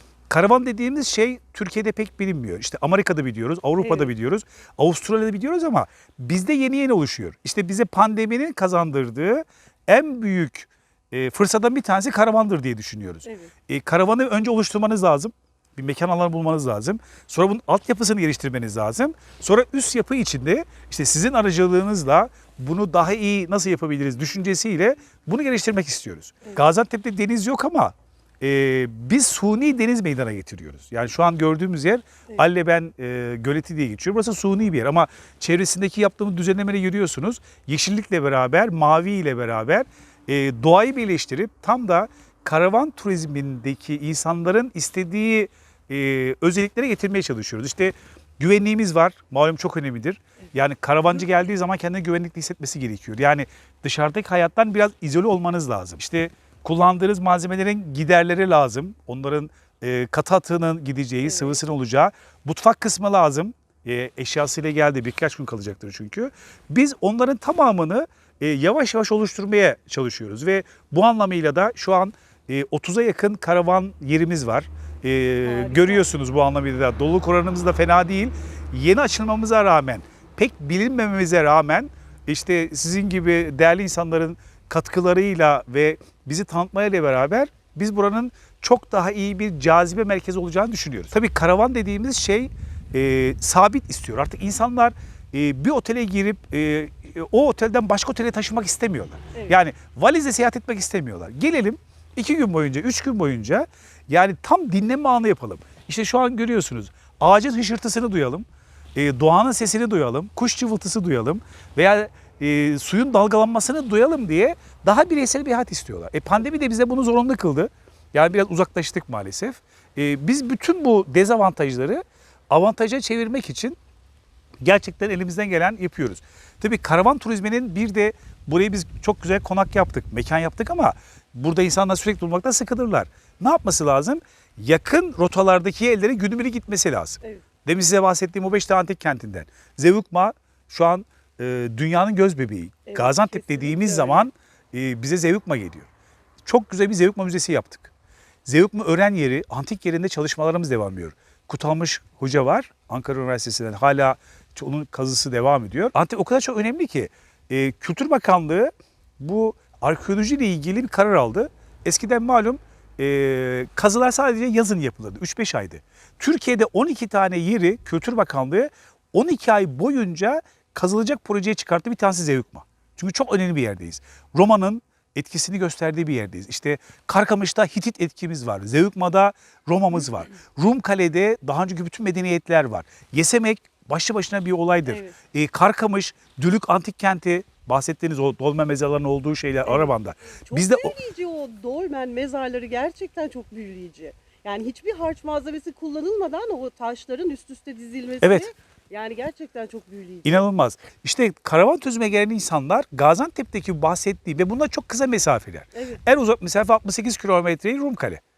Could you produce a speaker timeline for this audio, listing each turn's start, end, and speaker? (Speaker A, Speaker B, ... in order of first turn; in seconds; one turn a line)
Speaker A: 0.3-108.4
Speaker B: 3.8-4.1
Speaker B: 13.2-13.5
Speaker B: 61.2-61.6
Speaker B: 75.4-76.1
Speaker A: 109.0-123.8
Speaker A: 124.6-145.9
Speaker B: 142.9-144.3
Speaker A: 146.4-147.9
Speaker A: 148.5-190.9
Speaker B: 184.9-185.2
Speaker B: 189.7-189.9
Speaker B: 190.4-200.4
Speaker A: 198.2-198.5
Speaker A: 200.2-208.2
Speaker B: 205.7-206.0